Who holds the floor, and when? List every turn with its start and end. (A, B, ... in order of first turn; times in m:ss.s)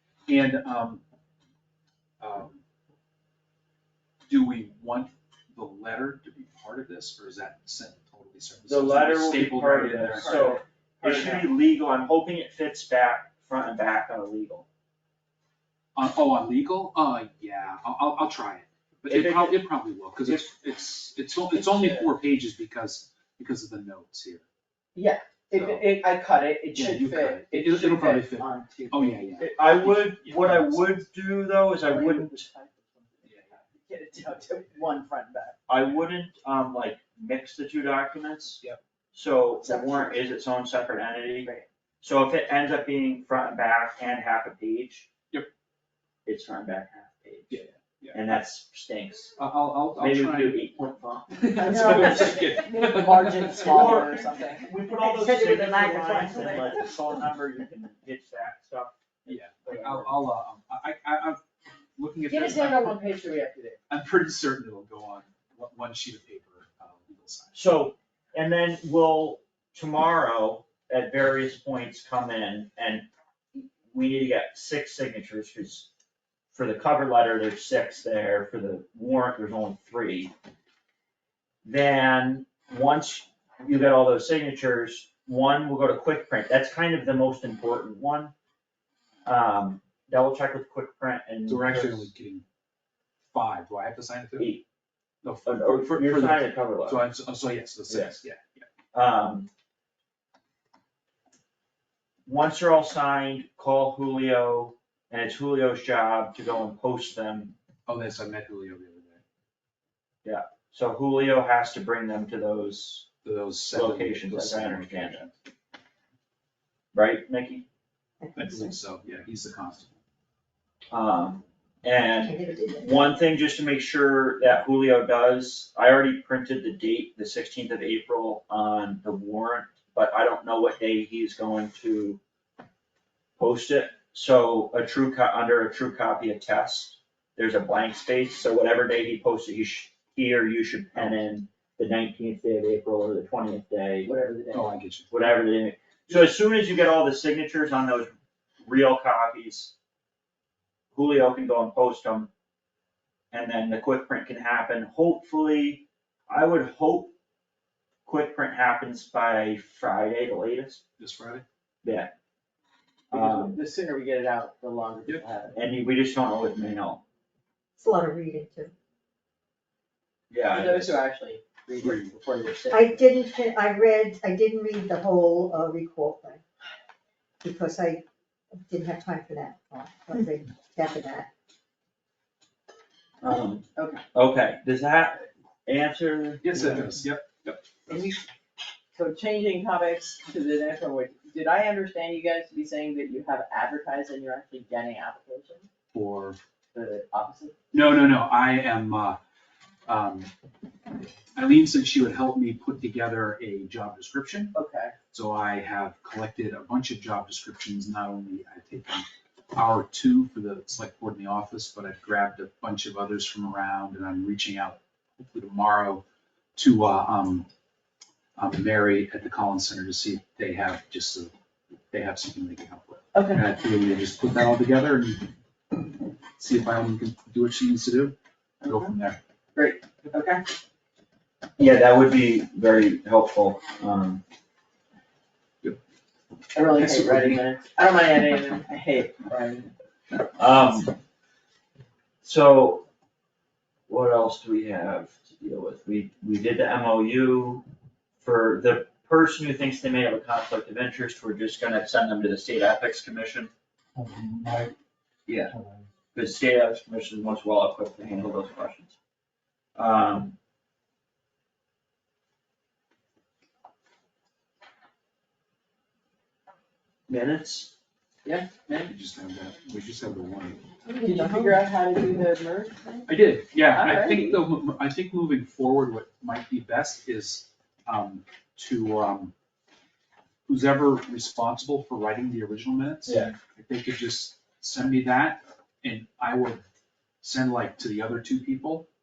0:00.3-0:01.0 A
0:02.2-0:02.6 A
0:04.3-0:10.5 A
0:08.7-0:14.6 B
0:10.1-0:11.5 C
0:15.9-0:24.4 A
0:19.0-0:19.6 B
0:20.2-0:20.5 B
0:21.6-0:21.9 C
0:24.9-0:29.4 C
0:25.5-0:25.9 A
0:26.7-0:31.0 A
0:29.4-0:32.5 B
0:31.9-0:35.6 C
0:33.2-0:33.5 A
0:35.7-0:38.6 B
0:39.1-0:41.5 B
0:39.6-0:40.2 C
0:42.0-0:45.1 B
0:46.2-0:49.3 B
0:47.5-0:48.3 A
0:49.4-0:50.7 A
0:50.0-0:52.2 B
0:51.3-0:54.2 A
0:51.6-0:54.8 C
0:53.6-1:00.2 B
0:55.0-0:57.1 D
0:56.4-0:56.7 C
0:59.2-1:01.4 A
1:02.0-1:03.0 A
1:02.3-1:03.8 C
1:03.9-1:07.6 A
1:07.5-1:15.9 B
1:16.5-1:20.3 B
1:21.6-1:28.3 B
1:29.2-1:32.1 B
1:31.5-1:32.4 A
1:33.3-1:34.5 A
1:34.4-1:34.6 B
1:35.2-1:38.6 A
1:35.4-1:37.0 B
1:37.9-1:38.1 B
1:38.9-1:39.5 B
1:42.2-1:47.5 B
1:47.8-1:49.2 A
1:50.2-1:53.1 B
1:53.2-1:55.3 A
1:53.7-1:55.2 B
1:56.9-1:57.6 B
1:58.2-1:58.8 D
1:58.4-2:00.0 A
2:00.9-2:12.2 B
2:02.1-2:03.1 D
2:13.4-2:24.1 B
2:20.9-2:21.2 A
2:24.0-2:24.7 C
2:24.5-2:25.1 A
2:25.1-2:28.1 B
2:28.6-2:29.7 B
2:30.9-2:32.3 B
2:33.3-2:37.1 B
2:38.0-2:40.8 B
2:41.0-2:41.4 A
2:41.8-2:42.1 B
2:43.1-2:43.6 B
2:43.1-2:45.6 C
2:45.5-2:47.0 B
2:47.8-2:48.7 D
2:50.3-2:51.0 B
2:50.5-2:53.1 C
2:52.7-2:56.4 D
2:57.4-2:58.0 D
2:58.6-3:01.3 D
3:03.2-3:07.0 B
3:03.8-3:04.0 C
3:06.4-3:08.1 A
3:07.9-3:08.2 C
3:08.9-3:15.7 C
3:15.9-3:16.4 A
3:16.7-3:17.6 C
3:17.7-3:19.2 A
3:19.8-3:20.3 A
3:21.3-3:24.5 A
3:24.5-3:25.0 C
3:25.1-3:36.0 A
3:36.6-3:37.5 A
3:38.4-3:41.3 A
3:41.9-3:45.3 A
3:43.1-3:43.4 C
3:46.4-3:49.2 A
3:48.6-3:48.9 C
3:49.5-3:50.4 C
3:51.6-3:54.2 B
3:56.5-3:59.7 C
3:56.7-3:57.4 A
4:00.3-4:00.9 B
4:02.2-4:02.8 B
4:03.9-4:07.6 B
4:08.2-4:13.5 B
4:15.3-4:15.5 B
4:16.1-4:19.0 B
4:19.8-4:20.3 B
4:27.1-4:27.7 B
4:28.2-4:28.9 C
4:28.8-4:30.6 A
4:30.8-4:34.4 C
4:30.9-4:31.6 D
4:33.0-4:39.3 A
4:40.4-4:46.6 A
4:43.0-4:43.3 B
4:47.2-4:48.9 A